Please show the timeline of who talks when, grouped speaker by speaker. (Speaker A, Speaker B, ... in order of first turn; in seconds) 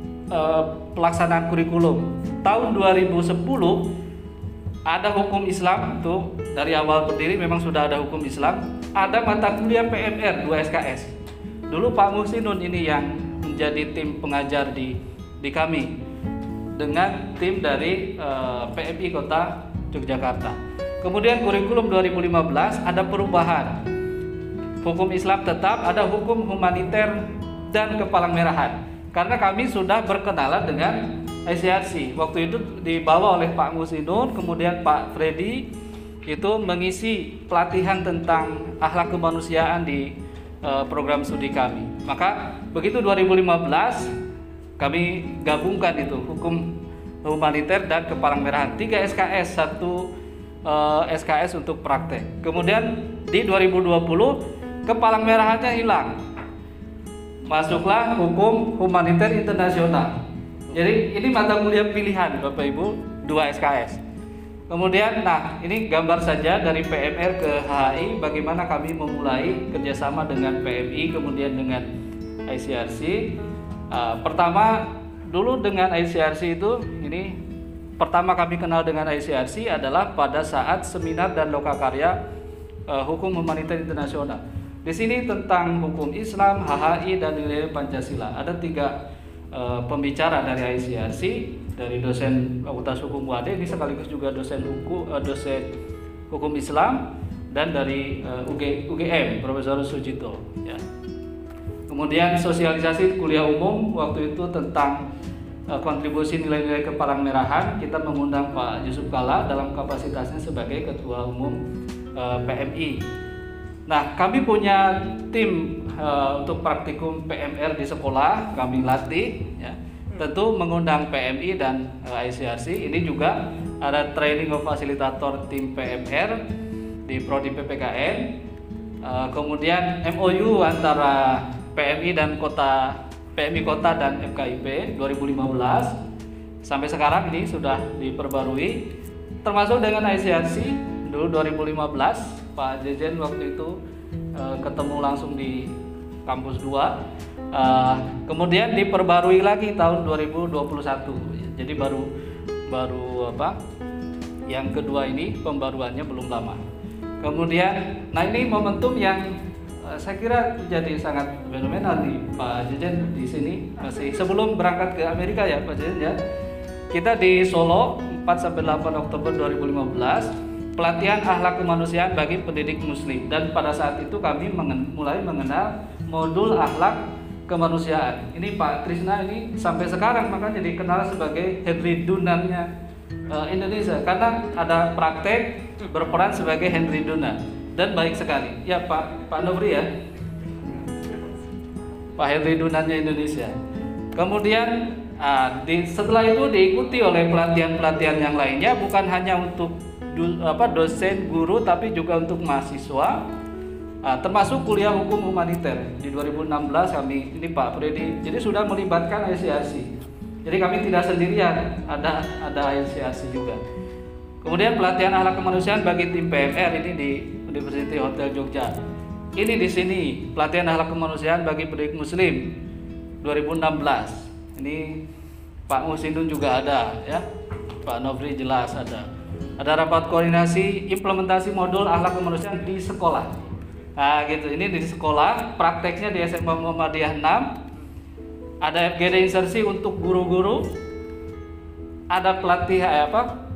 Speaker A: 0.3-3.9, 4.9-11.1, 11.7-15.9, 16.8-23.8, 24.8-35.7, 36.3-40.1, 40.6-44.1, 44.8-46.7, 47.2-50.1, 50.6-56.2, 57.5-60.1, 60.7-64.0, 64.7-71.9, 72.5-73.3, 73.9-77.3, 78.0-82.2, 82.9-89.0, 89.5-95.7, 96.3-100.8, 101.9-105.0, 105.7-111.6, 112.2-113.0, 113.9-126.4, 127.1-128.4, 129.0-136.0, 136.6-138.9, 139.4-143.8, 144.3-147.0, 147.5-152.1, 152.7-153.6, 154.5-156.6, 157.2-166.2, 166.9-182.7, 183.3-189.9, 192.2-193.5, 194.2-203.2, 204.0-209.9, 210.5-213.6, 214.4-218.7, 219.4-222.6, 223.2-225.0, 225.7-227.2, 227.8-229.1, 229.6-233.3, 234.0-237.6, 238.6-240.7, 242.1-243.3